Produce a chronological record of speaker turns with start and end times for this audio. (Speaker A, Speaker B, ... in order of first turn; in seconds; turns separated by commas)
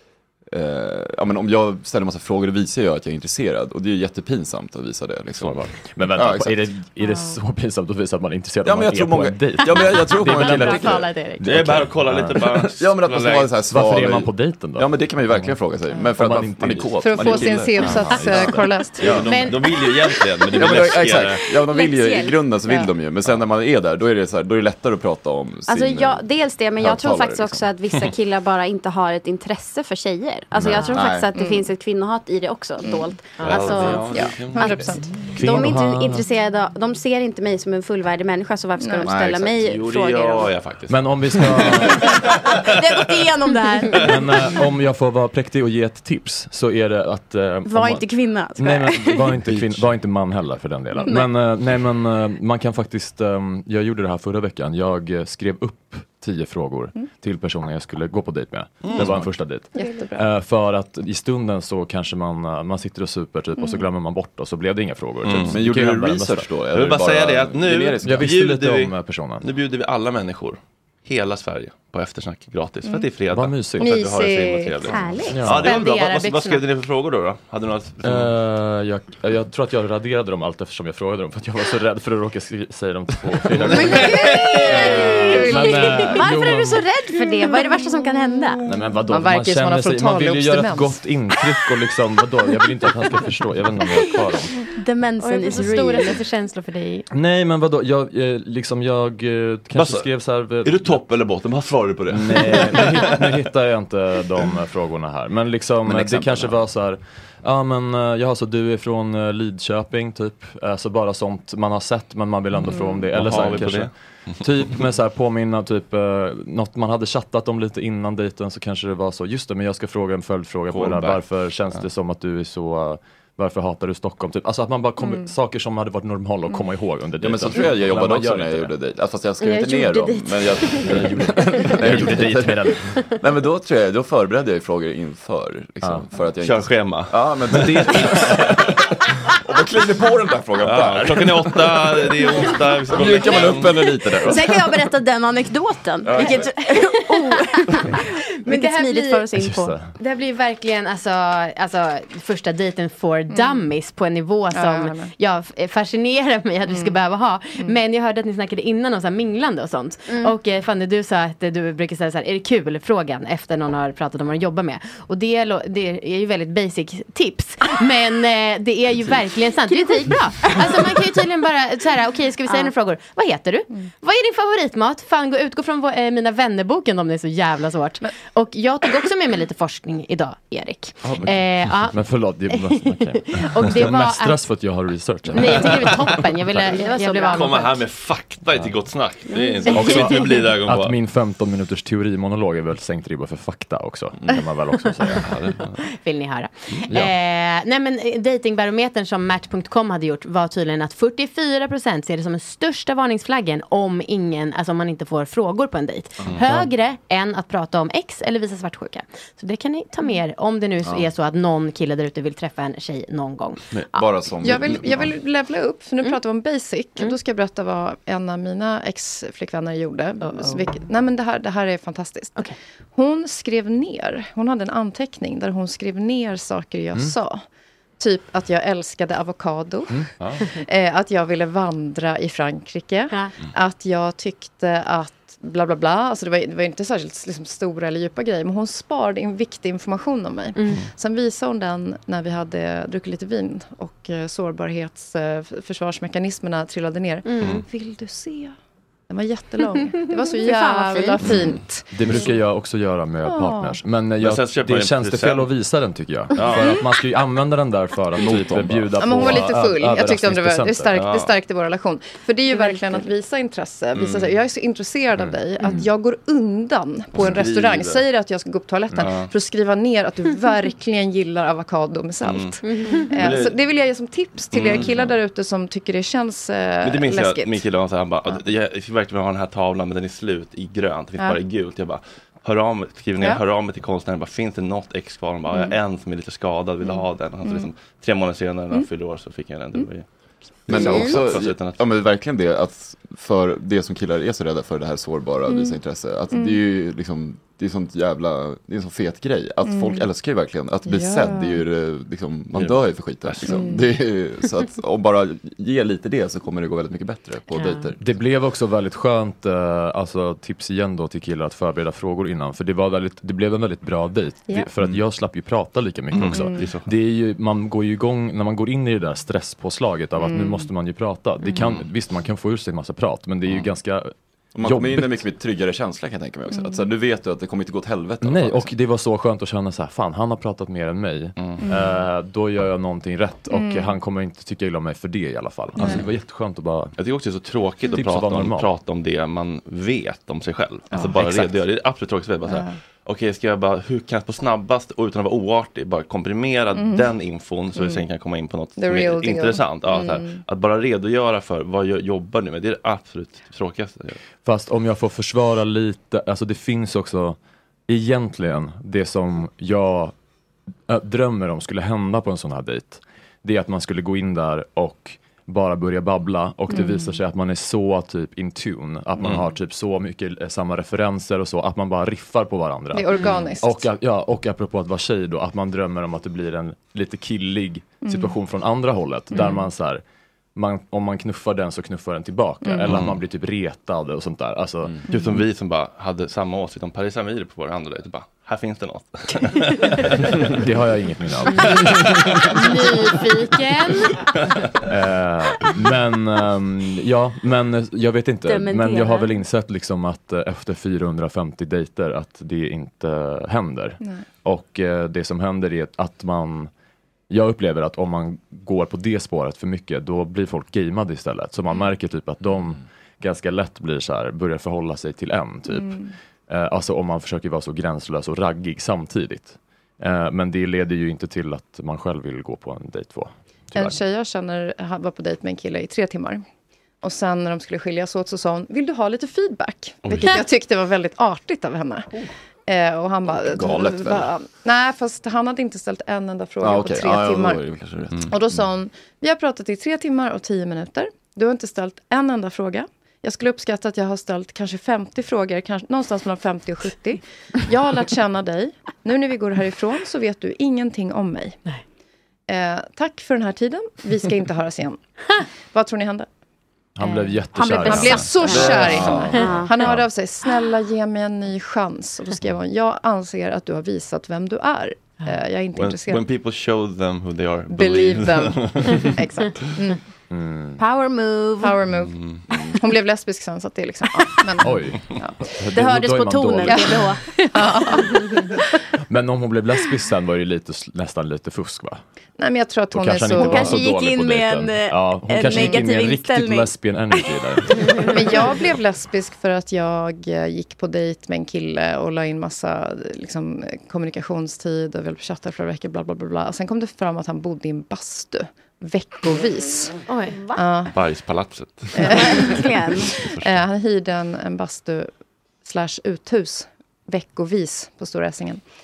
Speaker A: 0.5-6.7, Speaker B: 5.4-12.4, Speaker A: 8.6-11.1, Speaker C: 10.3-11.5, Speaker D: 11.4-13.6, Speaker A: 12.6-19.2, Speaker B: 13.7-15.5, Speaker B: 16.2-18.8, Speaker E: 17.0-19.2, Speaker D: 17.8-21.5, Speaker C: 19.2-19.7, Speaker A: 20.5-27.7, Speaker F: 21.7-22.4, Speaker F: 25.7-40.5, Speaker A: 30.6-31.3, Speaker E: 31.3-31.7, Speaker E: 32.8-33.1, Speaker D: 33.4-35.0, Speaker E: 34.0-35.0, Speaker B: 35.3-36.2, Speaker E: 38.8-39.1, Speaker A: 39.0-39.6, Speaker D: 39.6-42.6, Speaker B: 40.9-42.1, Speaker F: 42.6-44.2, Speaker B: 44.0-66.5, Speaker F: 47.6-49.3, Speaker D: 49.5-49.8, Speaker D: 58.8-59.3, Speaker E: 59.7-60.2, Speaker E: 63.6-63.8, Speaker D: 65.2-65.6, Speaker A: 65.4-68.3, Speaker D: 66.7-78.3, Speaker B: 68.0-69.5, Speaker B: 73.3-74.0, Speaker E: 73.8-75.0, Speaker F: 74.9-75.4, Speaker B: 75.3-75.7, Speaker C: 75.5-76.6, Speaker B: 78.0-86.9, Speaker D: 83.5-84.9, Speaker F: 83.7-88.6, Speaker E: 84.9-86.2, Speaker B: 88.6-94.5, Speaker E: 89.0-91.0, Speaker F: 94.8-96.2, Speaker C: 95.2-97.0, Speaker B: 97.1-101.0, Speaker D: 99.7-100.1, Speaker D: 100.6-103.4, Speaker B: 102.1-128.7, Speaker A: 105.8-106.6, Speaker E: 112.6-113.0, Speaker D: 113.1-113.9, Speaker D: 120.7-121.8, Speaker E: 125.0-125.3, Speaker A: 127.2-138.8, Speaker C: 129.5-130.1, Speaker B: 130.9-132.8, Speaker D: 136.4-138.6, Speaker A: 139.3-144.6, Speaker D: 140.6-143.7, Speaker F: 144.2-149.7, Speaker A: 146.0-146.5, Speaker C: 148.4-149.2, Speaker B: 149.4-149.9, Speaker C: 150.0-182.0, Speaker E: 154.5-155.1, Speaker E: 156.7-157.0, Speaker F: 169.7-169.9, Speaker B: 181.2-185.8, Speaker C: 182.5-184.4, Speaker C: 185.3-187.8, Speaker F: 186.8-187.3, Speaker D: 187.3-190.9, Speaker F: 189.3-190.0, Speaker B: 189.7-195.3, Speaker C: 189.8-190.0, Speaker D: 195.2-195.8, Speaker C: 195.9-214.0, Speaker A: 213.9-215.1, Speaker E: 214.4-227.4, Speaker C: 220.2-220.7, Speaker E: 228.0-248.6, Speaker C: 240.5-240.8, Speaker C: 247.2-247.6, Speaker E: 249.1-252.3, Speaker F: 250.4-251.3, Speaker B: 251.9-261.0, Speaker D: 252.0-252.3, Speaker E: 253.2-253.8, Speaker D: 254.2-255.5, Speaker D: 256.3-256.8, Speaker A: 258.2-259.4, Speaker E: 259.0-277.6, Speaker D: 260.9-261.3, Speaker D: 263.9-264.3, Speaker D: 267.1-268.0, Speaker D: 269.0-269.3, Speaker D: 272.2-272.6, Speaker C: 272.6-273.3, Speaker D: 273.1-273.5, Speaker D: 274.5-275.1, Speaker D: 276.8-290.1, Speaker E: 285.5-285.8, Speaker E: 287.4-287.7, Speaker D: 290.7-291.8, Speaker A: 290.7-308.0, Speaker E: 295.5-295.8, Speaker E: 296.3-296.6, Speaker E: 299.6-300.1, Speaker E: 300.8-301.6, Speaker D: 302.5-303.6, Speaker E: 303.4-303.9, Speaker C: 307.5-307.8, Speaker B: 308.0-325.2, Speaker D: 316.1-316.9, Speaker E: 316.3-316.7, Speaker E: 320.2-320.7, Speaker A: 324.5-328.7, Speaker E: 326.5-326.9, Speaker B: 328.2-336.9, Speaker D: 331.4-331.6, Speaker E: 331.6-332.0, Speaker E: 333.5-333.9, Speaker E: 335.8-336.0, Speaker D: 335.8-336.1, Speaker D: 337.0-354.2, Speaker B: 337.9-338.7, Speaker E: 340.9-341.4, Speaker E: 342.4-342.8, Speaker E: 346.7-347.1, Speaker E: 348.8-350.4, Speaker B: 354.4-360.1, Speaker B: 360.9-380.0, Speaker E: 366.7-367.1, Speaker D: 369.2-369.5, Speaker E: 372.9-373.9, Speaker E: 378.0-378.3, Speaker E: 379.3-379.6, Speaker B: 380.6-385.0, Speaker E: 382.6-382.9, Speaker D: 382.8-383.2, Speaker D: 385.1-390.4, Speaker E: 385.1-385.4, Speaker B: 390.6-391.9, Speaker D: 391.5-392.4, Speaker C: 392.5-394.1, Speaker B: 394.9-406.7, Speaker F: 398.5-399.3, Speaker B: 407.3-416.0, Speaker E: 415.7-416.1, Speaker B: 416.5-424.0, Speaker E: 423.7-426.4, Speaker E: 427.0-432.1, Speaker D: 430.0-430.4, Speaker E: 432.7-437.6, Speaker A: 433.3-434.3, Speaker A: 436.6-438.4, Speaker E: 438.3-451.6, Speaker E: 452.5-455.0, Speaker E: 455.7-456.3, Speaker B: 457.0-459.3, Speaker F: 457.5-459.9, Speaker E: 457.7-466.2, Speaker A: 458.5-459.3, Speaker D: 465.8-469.1, Speaker E: 467.7-470.0, Speaker B: 470.3-470.8, Speaker F: 470.8-471.8, Speaker E: 471.6-475.4, Speaker D: 472.0-472.4, Speaker B: 474.6-477.0, Speaker F: 475.7-477.2, Speaker E: 476.6-478.8, Speaker B: 479.1-482.0, Speaker E: 482.4-483.8, Speaker B: 482.9-487.9, Speaker F: 483.3-488.6, Speaker E: 487.9-500.0, Speaker C: 500.1-500.4, Speaker E: 500.5-500.9, Speaker D: 500.9-502.6, Speaker E: 501.9-505.1, Speaker F: 502.0-503.1, Speaker E: 505.6-508.6